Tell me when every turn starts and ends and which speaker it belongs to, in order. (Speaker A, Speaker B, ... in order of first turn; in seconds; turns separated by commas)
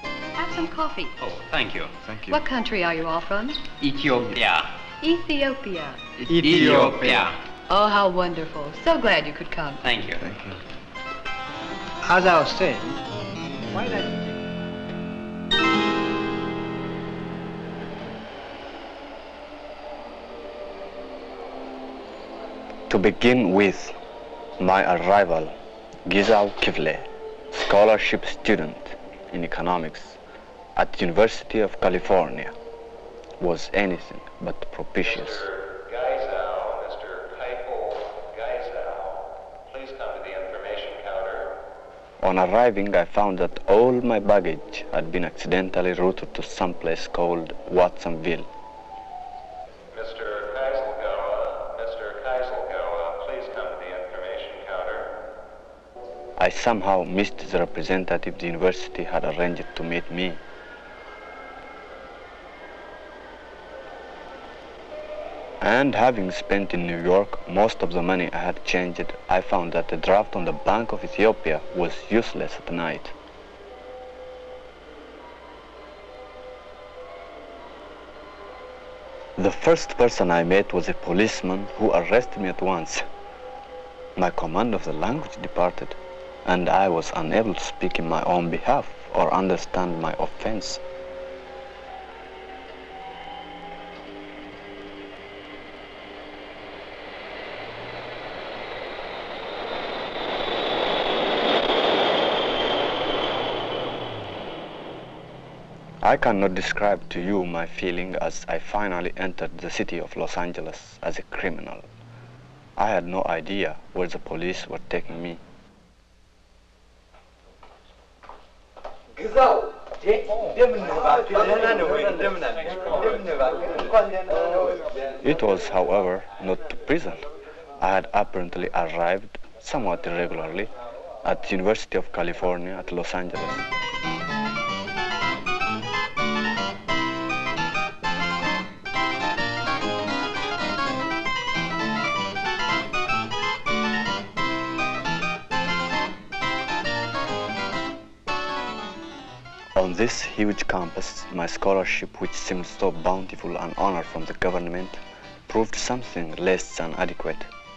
Speaker A: 0.3-1.1, Speaker B: 1.2-1.9, Speaker C: 2.0-2.4, Speaker A: 2.2-3.6, Speaker B: 3.8-4.7, Speaker A: 5.0-6.0, Speaker B: 6.2-7.3, Speaker D: 6.3-7.3, Speaker A: 7.7-9.8, Speaker B: 9.8-10.3, Speaker C: 10.2-10.6, Speaker D: 12.0-13.0, Speaker D: 13.7-14.4, Speaker C: 22.9-23.9, Speaker C: 24.6-25.5, Speaker C: 26.1-30.2, Speaker C: 30.8-32.5, Speaker C: 33.4-35.5, Speaker E: 35.0-41.5, Speaker C: 42.2-48.5, Speaker E: 49.9-55.1, Speaker C: 56.4-60.4, Speaker C: 65.6-73.1, Speaker C: 79.4-83.0, Speaker C: 84.2-90.8, Speaker C: 106.0-111.9, Speaker C: 112.8-115.4, Speaker C: 120.2-123.9, Speaker C: 125.2-127.2, Speaker C: 127.8-130.7, Speaker C: 131.2-133.6, Speaker C: 149.7-157.5